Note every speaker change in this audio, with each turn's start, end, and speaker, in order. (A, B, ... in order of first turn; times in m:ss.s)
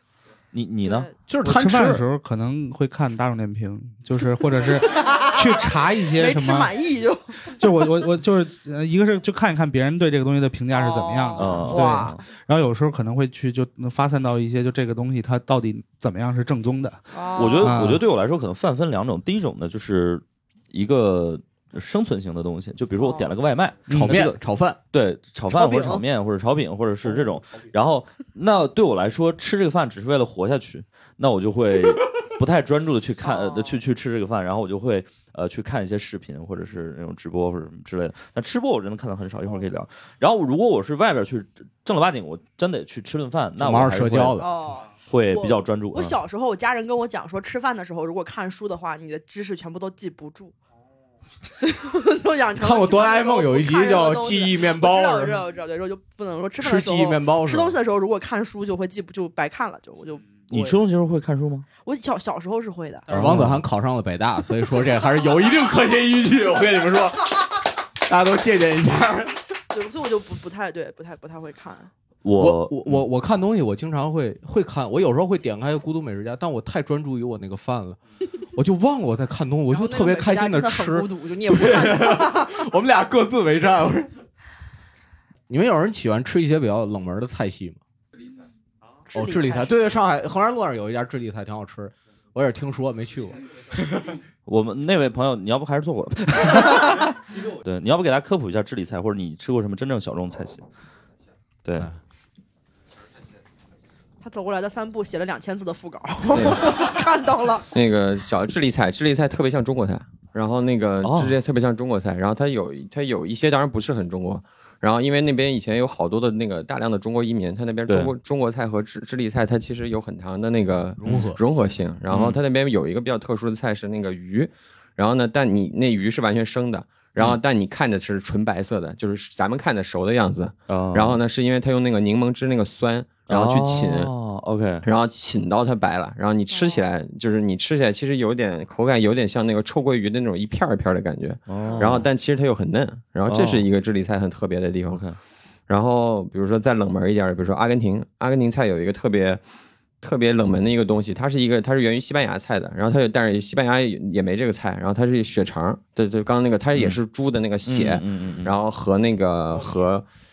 0:00.5-0:01.1 A
0:00.8-0:01.2 B
0:01.3-0:02.0 C
0:01.4-0:06.7 D
0:04.9-0:07.6 B
0:07.6-0:17.0 D
0:10.7-0:12.2 B
0:11.4-0:12.2 A
0:17.1-0:17.8 B
0:17.4-0:24.4 A
0:17.6-0:18.0 D
0:23.0-0:23.3 B
0:23.9-0:24.3 D
0:23.9-0:24.8 C
0:24.9-0:44.4 A
0:25.5-0:26.0 B
0:33.2-0:33.8 B
0:43.6-0:44.5 C
0:44.4-0:50.5 B
0:45.1-0:46.2 A
0:51.6-1:00.8 B
0:52.6-0:55.4 C
0:56.6-0:57.8 C
1:00.5-1:01.7 A
1:01.8-1:03.1 B
1:03.1-1:07.3 C
1:03.1-1:03.7 A
1:08.1-1:09.4 C
1:09.7-1:11.9 B
1:12.2-1:13.0 A
1:12.4-1:18.0 C
1:18.6-1:24.1 C
1:19.7-1:22.6 B
1:25.5-1:27.8 C
1:29.1-1:29.9 B
1:29.1-1:33.4 C
1:34.5-1:40.6 A
1:44.2-1:47.7 B
1:46.3-1:46.8 E
1:47.7-2:14.1 E
1:51.0-1:51.4 A
1:57.9-1:58.1 A
2:01.0-2:01.4 C
2:02.1-2:02.4 A
2:10.7-2:11.2 A
2:13.3-2:14.8 A
2:14.8-2:25.0 E
2:16.5-2:16.8 B
2:21.5-2:22.1 A
2:21.7-2:22.0 B
2:23.3-2:23.7 A
2:24.9-2:25.2 A
2:25.7-2:29.4 E
2:30.0-2:40.1 E
2:37.7-2:38.6 A